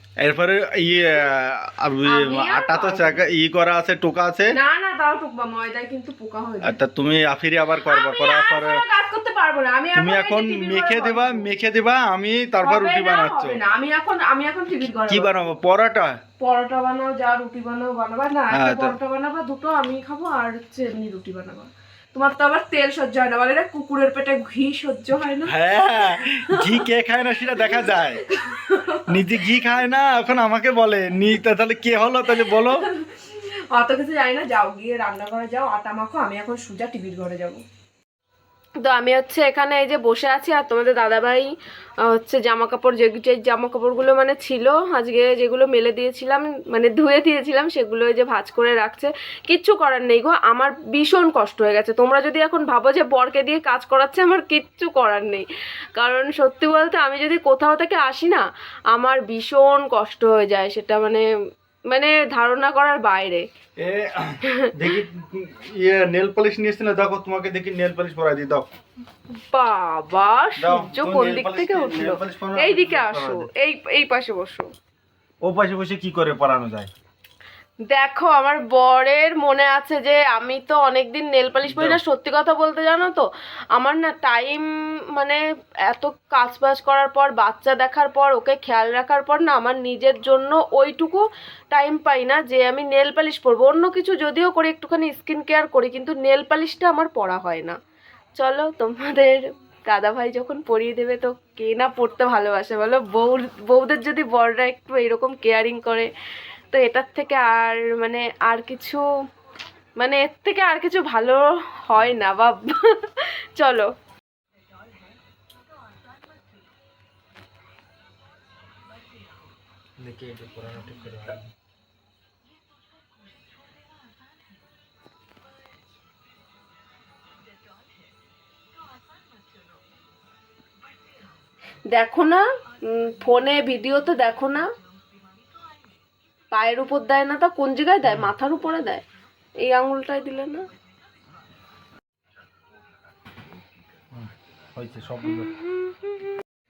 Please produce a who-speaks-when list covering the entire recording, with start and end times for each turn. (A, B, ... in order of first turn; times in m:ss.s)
0:00.2-0:04.5 A
0:02.0-0:03.2 B
0:04.5-0:06.8 B
0:06.6-0:08.8 A
0:07.8-0:11.5 B
0:09.9-0:13.6 A
0:12.6-0:15.3 B
0:15.1-0:16.2 A
0:16.4-0:26.8 B
0:18.5-0:19.0 A
0:25.4-0:28.2 A
0:27.5-0:29.5 B
0:29.1-0:32.8 A
0:32.3-0:37.6 B
0:38.8-0:41.5 B
0:42.1-1:01.2 B
1:01.9-1:03.4 B
1:03.8-1:08.7 A
1:04.4-1:05.0 B
1:09.5-1:14.7 B
1:10.6-1:13.5 A
1:15.4-1:16.9 A
1:17.9-1:23.2 B
1:21.7-1:22.0 A
1:23.8-1:37.7 B
1:38.4-1:46.1 B
1:46.7-1:49.0 B
1:50.0-1:53.9 B
2:00.0-2:01.5 A
2:11.9-2:14.6 B
2:16.5-2:19.0 B
2:19.6-2:20.6 B
2:24.1-2:25.5 A
2:25.2-2:26.4 B